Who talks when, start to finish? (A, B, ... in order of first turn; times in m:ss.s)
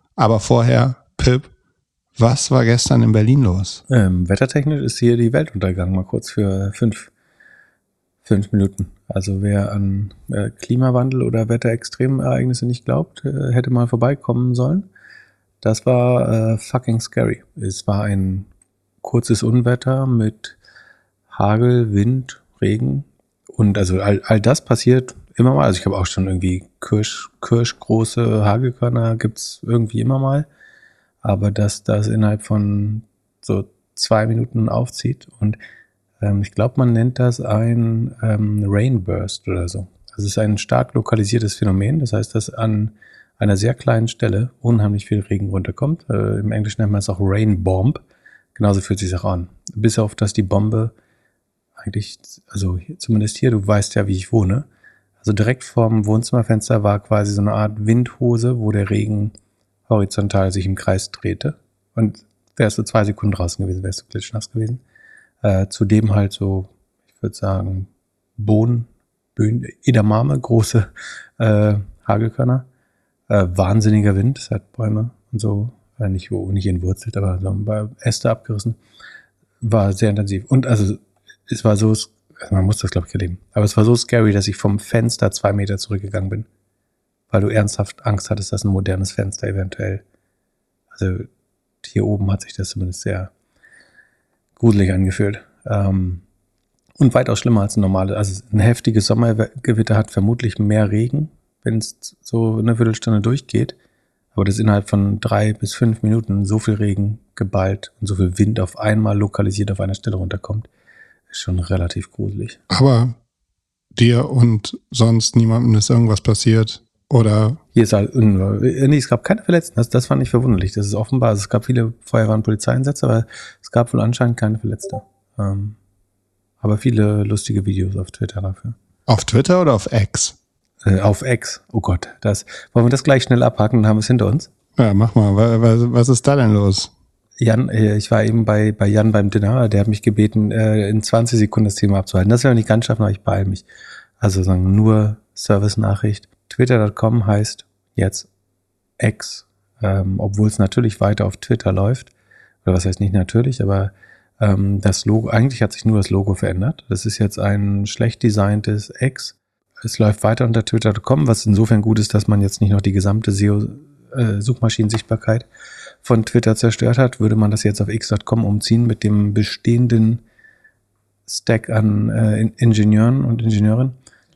0:00.2-0:01.5 A
0:02.2-0:03.8 A
0:03.9-0:07.1 B
0:08.2-0:14.9 B
0:15.6-0:18.5 B
0:19.0-0:20.6 B
0:21.3-0:30.5 B
0:31.2-0:35.6 B
0:36.2-0:48.0 B
0:48.6-0:50.9 B
0:51.8-0:54.7 B
0:55.2-0:59.3 B
0:59.9-1:04.8 B
1:05.4-1:12.7 B
1:13.3-1:18.8 B
1:19.6-1:26.5 B
1:27.3-1:30.0 B
1:30.9-1:31.3 B
1:31.8-1:33.3 B
1:34.6-1:36.2 B
1:37.0-1:43.8 B
1:44.3-1:50.7 B
1:51.3-1:52.6 B
1:52.7-1:53.2 A
1:54.0-1:57.6 A
1:57.7-2:05.8 B
2:06.6-2:08.8 B
2:09.1-2:10.4 A
2:10.8-2:14.5 B
2:14.8-2:16.9 A
2:17.4-2:23.6 B
2:24.2-2:28.3 B
2:29.0-2:32.1 B
2:32.6-2:45.5 B
2:46.0-2:50.2 B
2:51.3-2:54.0 B